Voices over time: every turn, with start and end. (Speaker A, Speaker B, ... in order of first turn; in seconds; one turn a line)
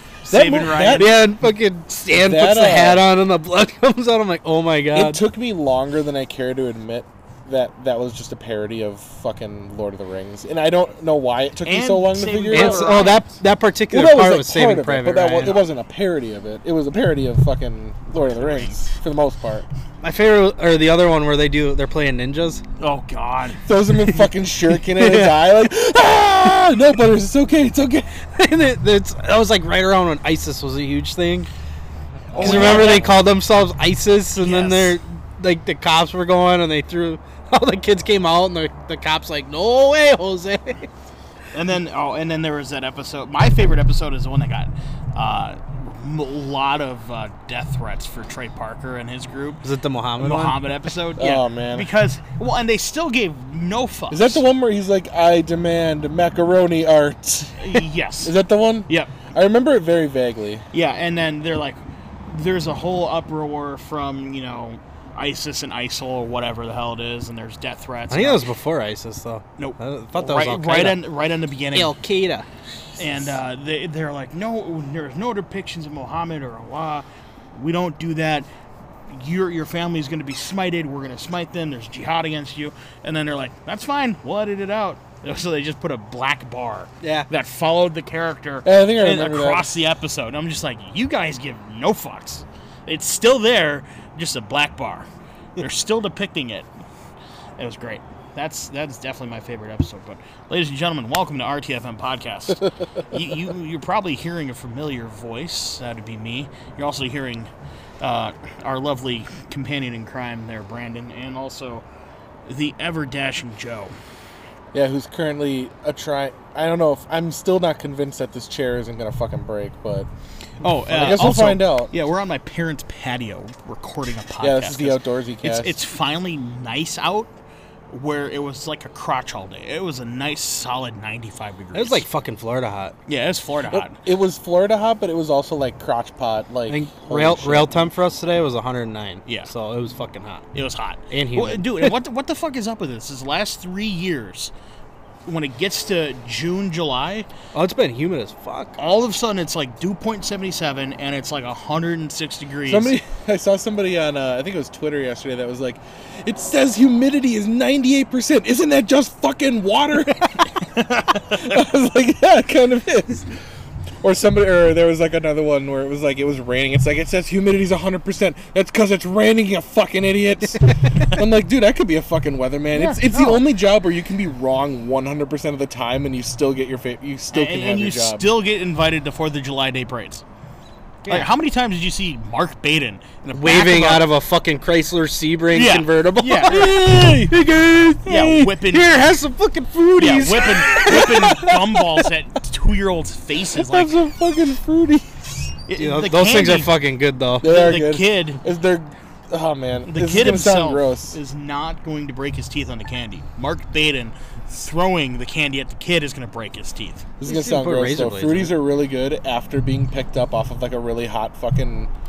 Speaker A: 0.3-1.2
Speaker B: 0.3-1.2
Speaker C: 0.9-5.3
Speaker B: 2.2-3.1
Speaker B: 4.9-13.2
Speaker A: 11.6-13.3
Speaker C: 12.5-15.6
Speaker B: 13.9-19.7
Speaker A: 18.1-18.8
Speaker C: 20.0-22.6
Speaker A: 22.8-23.6
Speaker B: 23.6-28.1
Speaker C: 24.2-25.5
Speaker C: 28.3-31.5
Speaker B: 32.3-33.1
Speaker A: 32.3-33.2
Speaker C: 32.4-40.9
Speaker A: 34.4-35.0
Speaker A: 41.5-49.6
Speaker C: 49.6-50.6
Speaker A: 50.2-54.4
Speaker B: 51.2-51.9
Speaker B: 54.1-60.6
Speaker A: 57.6-58.4
Speaker A: 58.9-59.3
Speaker A: 60.7-68.5
Speaker C: 68.1-71.1
Speaker A: 69.6-71.9
Speaker C: 71.7-72.5
Speaker A: 73.0-78.5
Speaker A: 79.1-96.7
Speaker C: 87.0-87.3
Speaker B: 88.7-89.8
Speaker A: 97.6-111.8
Speaker A: 112.5-113.9
Speaker B: 114.7-120.1
Speaker A: 120.6-127.3
Speaker B: 120.9-121.9
Speaker B: 124.4-125.8
Speaker A: 127.9-132.1
Speaker C: 131.7-132.9
Speaker A: 133.1-134.0
Speaker B: 133.7-137.8
Speaker C: 136.7-140.5
Speaker A: 139.2-139.5
Speaker A: 140.5-144.5
Speaker C: 141.1-141.9
Speaker A: 145.3-147.3
Speaker C: 147.5-148.8
Speaker A: 148.8-153.0
Speaker B: 152.7-160.5
Speaker A: 160.3-161.5
Speaker B: 161.3-163.4
Speaker B: 164.0-178.3
Speaker A: 172.7-173.4
Speaker A: 177.3-180.2
Speaker A: 181.1-184.1
Speaker C: 183.3-191.1
Speaker A: 185.5-186.7
Speaker B: 186.4-187.3
Speaker A: 188.1-189.1
Speaker A: 190.0-194.0
Speaker B: 190.7-192.1
Speaker B: 193.5-195.5
Speaker A: 195.7-196.7
Speaker C: 195.8-197.4
Speaker B: 197.4-201.2
Speaker A: 197.4-198.4
Speaker A: 199.8-207.1
Speaker B: 207.2-211.9
Speaker C: 207.2-208.5